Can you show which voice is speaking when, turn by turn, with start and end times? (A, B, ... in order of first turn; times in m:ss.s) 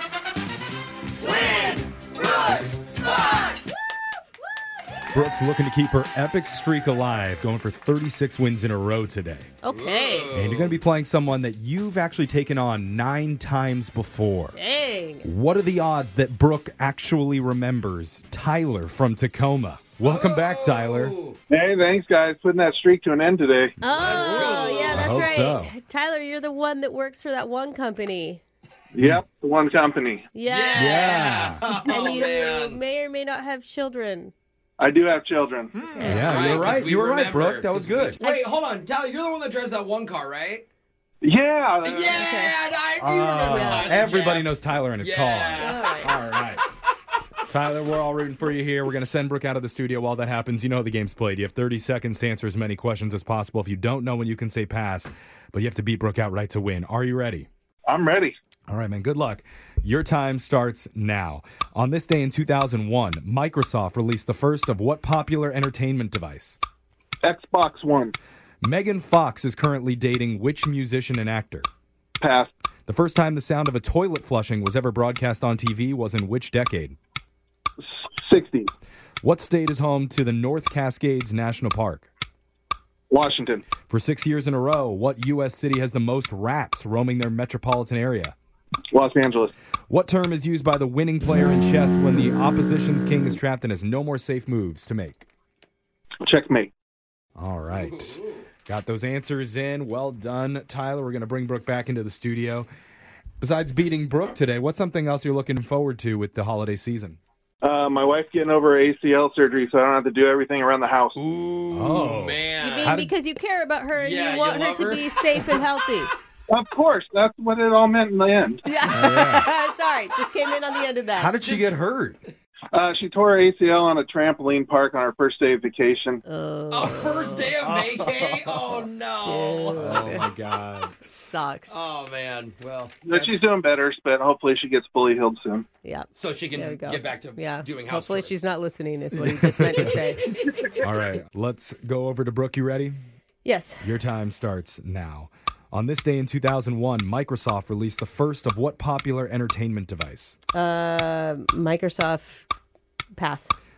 0:01.2-0:03.7 A
0:05.1-0:09.5 B
0:09.6-0:10.3 C
0:09.7-0:10.8 A
0:10.3-0:14.6 B
0:14.5-0:15.3 C
0:15.2-0:21.1 B
0:20.0-0:21.4 A
0:21.5-0:23.7 D
0:23.8-0:28.4 C
0:23.9-0:25.4 A
0:24.9-0:25.7 B
0:28.9-0:30.3 D
0:30.3-0:31.0 C
0:30.4-0:32.8 A
0:30.7-0:31.6 B
0:31.6-0:34.3 C
0:34.8-0:35.8 D
0:35.8-0:36.4 C
0:36.0-0:38.2 B
0:36.0-0:40.6 A
0:41.2-0:42.4 D
0:41.8-0:46.4 A
0:42.1-0:42.6 C
0:43.0-0:46.6 B
0:43.2-0:44.0 C
0:45.6-0:46.1 C
0:47.5-0:57.5 B
0:57.9-0:58.4 D
0:58.7-1:06.6 B
1:07.2-1:08.1 D
1:08.6-1:11.7 B
1:12.2-1:12.5 D
1:12.9-1:17.0 B
1:18.2-1:18.7 D
1:19.2-1:22.1 B
1:23.1-1:23.6 D
1:23.9-1:28.4 B
1:28.9-1:29.5 D
1:29.9-1:35.2 B
1:36.2-1:36.7 D
1:37.4-1:42.7 B
1:37.7-1:38.5 A
1:43.4-1:47.2 B
1:47.6-1:51.2 D
1:51.2-1:53.0 A
1:51.7-1:53.1 B
1:52.6-1:56.1 C
1:53.9-1:55.7 A
1:56.5-1:58.6 D
1:58.6-2:01.5 C
1:58.9-1:59.5 B
2:01.1-2:02.2 B
2:01.4-2:01.8 A
2:02.7-2:06.2 D
2:06.2-2:10.3 C
2:06.7-2:10.2 A
2:09.8-2:10.9 B
2:11.0-2:11.8 C
2:11.7-2:13.1 A
2:13.0-2:15.6 D
2:15.8-2:20.3 C
2:16.1-2:18.4 A
2:19.1-2:20.0 B
2:20.8-2:23.0 B
2:23.4-2:23.9 C
2:23.8-2:30.4 B
2:30.5-2:32.4 C
2:33.1-2:33.5 C